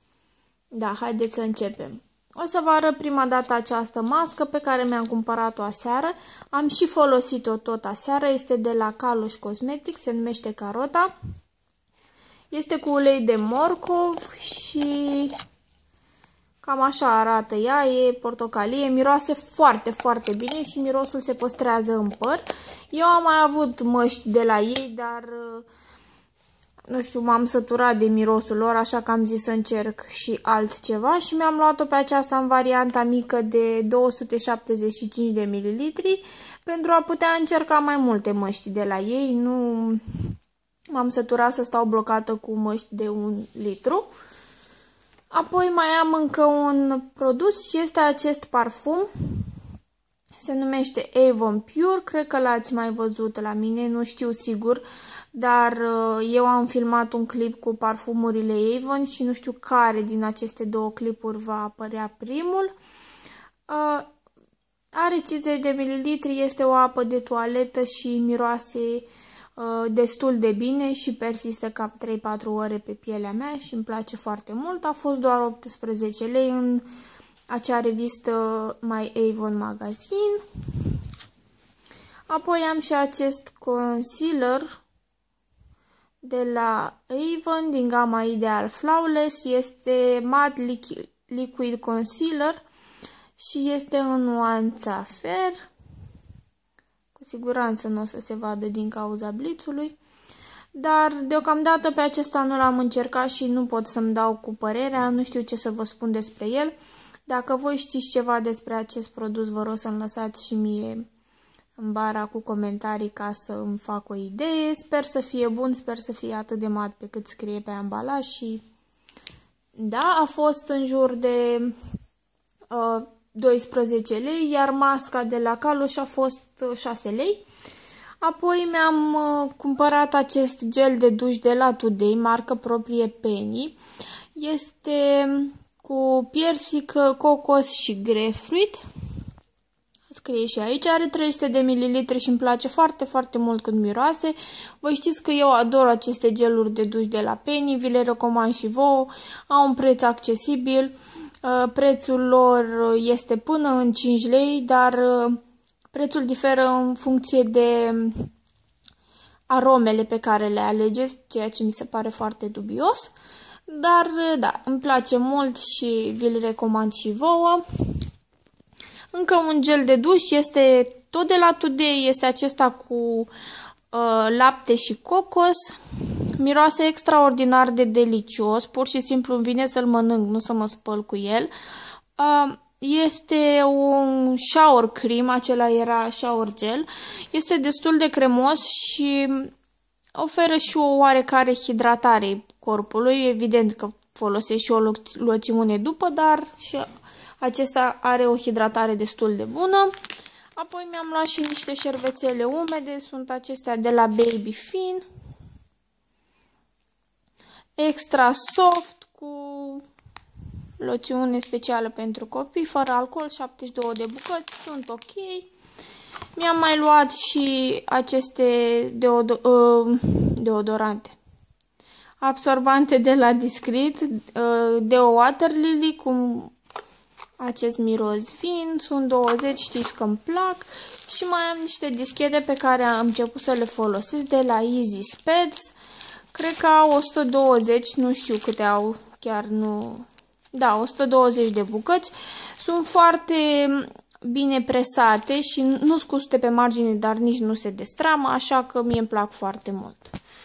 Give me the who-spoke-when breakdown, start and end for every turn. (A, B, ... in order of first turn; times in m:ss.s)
0:00.7-0:11.1 A
0:12.5-0:15.3 A
0:16.6-0:25.7 A
0:26.9-0:40.0 A
0:40.9-0:44.1 A
0:45.3-0:49.5 A
0:50.4-1:02.7 A
1:03.7-1:04.1 A
1:04.9-1:16.9 A
1:17.5-1:20.9 A
1:22.3-1:24.8 A
1:26.2-1:32.6 A
1:33.4-1:35.6 A
1:37.2-1:40.0 A
1:40.8-1:46.8 A
1:47.3-1:51.0 A
1:51.8-1:58.6 A
1:59.8-2:01.7 A
2:02.7-2:07.4 A
2:08.2-2:13.8 A
2:14.4-2:18.8 A
2:20.1-2:35.4 A
2:35.9-2:38.3 A
2:39.5-2:43.1 A
2:43.7-2:47.6 A
2:49.1-2:53.3 A
2:53.9-2:55.8 A
2:56.4-3:01.5 A
3:02.2-3:09.5 A
3:10.2-3:16.9 A
3:17.4-3:19.9 A
3:20.6-3:25.0 A
3:27.8-3:29.8 A
3:30.8-3:35.5 A
3:36.4-3:41.2 A
3:42.2-3:46.5 A
3:47.4-3:55.8 A
3:56.3-4:10.2 A